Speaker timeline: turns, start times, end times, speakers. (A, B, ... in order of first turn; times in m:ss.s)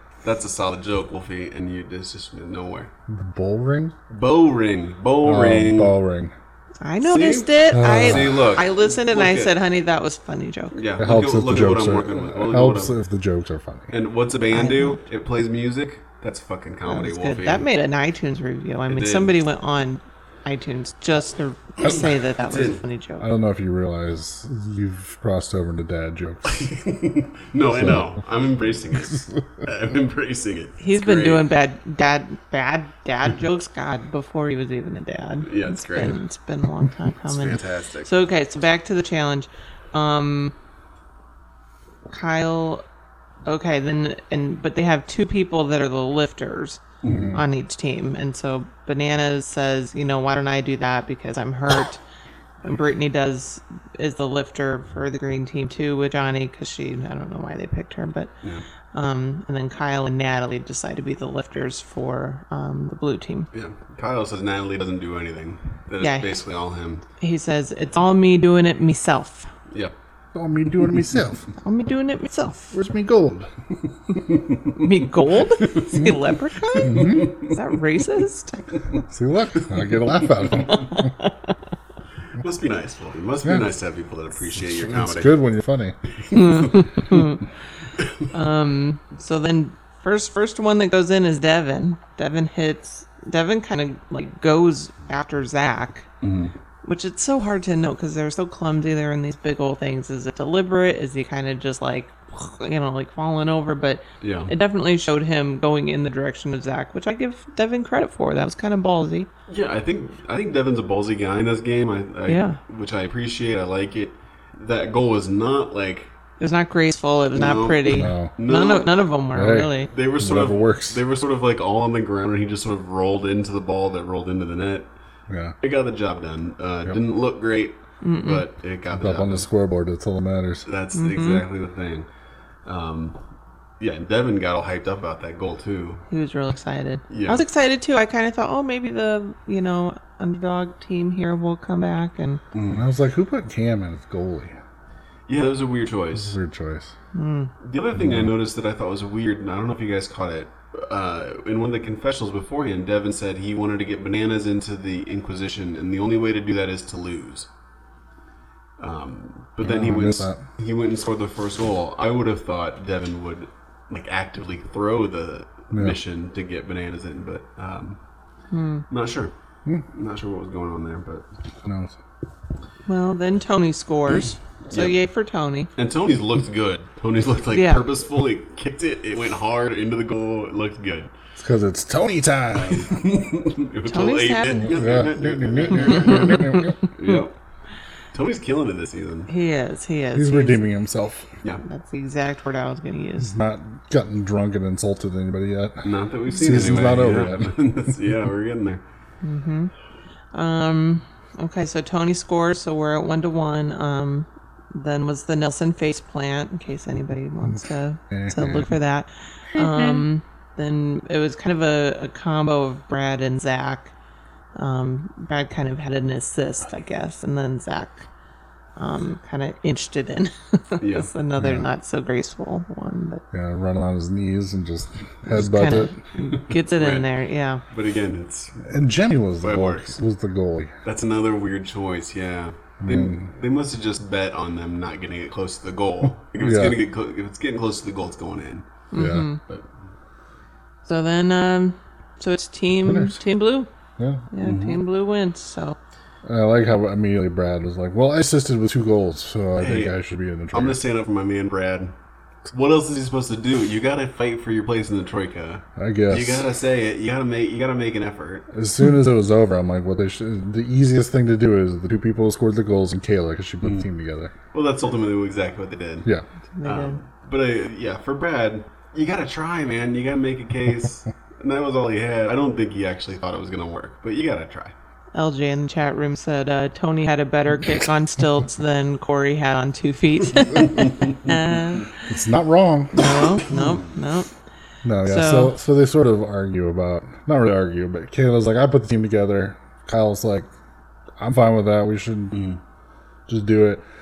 0:00.2-0:02.9 A
0:03.1-0:03.9 B
0:04.1-0:06.0 A
0:05.2-0:06.3 B
0:06.8-0:10.7 C
0:07.0-0:09.5 A
0:07.7-0:08.4 B
0:10.7-0:12.9 A
0:11.0-0:13.9 B
0:13.9-0:17.6 A
0:14.5-0:15.0 C
0:16.8-0:23.2 C
0:18.9-0:19.3 A
0:22.5-0:22.8 A
0:23.2-0:26.7 B
0:26.5-0:31.4 A
0:27.7-0:28.1 B
0:30.8-0:40.5 C
0:35.4-0:36.2 A
0:37.3-0:38.1 A
0:42.1-0:42.8 C
0:43.4-0:52.0 C
0:47.0-0:47.3 A
0:47.0-0:47.4 B
0:52.6-0:58.3 C
0:58.9-1:03.5 C
1:03.5-1:07.0 A
1:06.0-1:06.4 C
1:07.2-1:09.5 C
1:10.3-1:11.5 B
1:11.6-1:12.7 C
1:12.7-1:13.5 B
1:14.4-1:14.6 A
1:14.7-1:18.6 C
1:16.8-1:17.3 B
1:16.8-1:17.2 A
1:19.0-1:21.1 B
1:20.7-1:21.3 C
1:22.4-1:25.4 A
1:24.6-1:26.0 B
1:26.3-1:27.4 C
1:26.3-1:26.8 A
1:28.3-1:36.1 C
1:36.2-1:36.5 A
1:36.8-1:49.3 C
1:44.2-1:44.5 A
1:49.5-1:56.1 A
1:52.3-1:52.6 C
1:56.4-1:59.9 C
1:57.3-1:59.0 A
1:57.9-1:58.3 B
1:59.3-2:01.0 B
1:59.9-2:04.9 A
2:05.3-2:05.5 B
2:05.6-2:09.5 A
2:08.0-2:08.4 C
2:08.9-2:10.7 B
2:10.6-2:12.0 A
2:10.9-2:11.4 C
2:12.6-2:13.2 A
2:13.8-2:16.0 A
2:16.1-2:22.4 C
2:17.1-2:17.4 A
2:22.5-2:22.8 A
2:22.7-2:24.6 B
2:25.3-2:26.3 A
2:26.2-2:26.9 B
2:27.1-2:27.5 C
2:27.6-2:37.5 A
2:28.0-2:28.3 B
2:38.8-2:48.0 A
2:39.6-2:40.4 B
2:45.7-2:46.0 B
2:48.5-2:48.8 C
2:48.9-2:49.3 A
2:49.9-2:51.2 A
2:51.6-2:52.0 B
2:52.9-2:55.7 C
2:54.7-2:55.0 A
2:55.8-3:01.1 A
2:57.5-2:57.8 C
3:01.4-3:03.1 B
3:02.6-3:07.3 A
3:03.8-3:04.7 C
3:04.6-3:06.8 B
3:06.1-3:07.2 C
3:08.1-3:09.3 A
3:09.3-3:10.6 C
3:10.1-3:11.3 B
3:11.6-3:13.3 C
3:13.2-3:17.7 B
3:15.8-3:18.8 A
3:19.2-3:19.7 C
3:20.3-3:33.9 C
3:28.1-3:28.7 B
3:34.6-3:38.1 C
3:38.8-3:43.2 C
3:40.8-3:41.1 A
3:41.4-3:41.6 B
3:43.3-3:45.9 B
3:45.3-3:47.6 C
3:46.7-3:47.1 A
3:47.7-3:48.7 A
3:48.6-3:50.7 B
3:49.4-3:49.9 A
3:50.8-3:58.7 A
3:52.8-3:53.3 B
3:56.4-3:56.8 B
3:58.9-3:59.4 C
3:58.9-3:59.3 B
4:00.8-4:03.7 C
4:02.8-4:03.2 B
4:04.0-4:04.2 B
4:04.3-4:05.8 C
4:04.4-4:04.8 A
4:06.2-4:10.8 B
4:09.6-4:09.9 A
4:10.5-4:11.9 A
4:12.5-4:18.5 A
4:15.8-4:16.4 B
4:18.5-4:24.3 B
4:24.5-4:26.1 A
4:26.6-4:27.0 C
4:26.6-4:34.7 A
4:35.1-4:42.0 C
4:42.1-4:43.1 B
4:42.9-4:44.3 C
4:44.8-4:50.5 B
4:45.0-4:45.5 C
4:51.2-4:52.4 B
4:52.3-4:52.6 A
4:53.3-4:53.8 B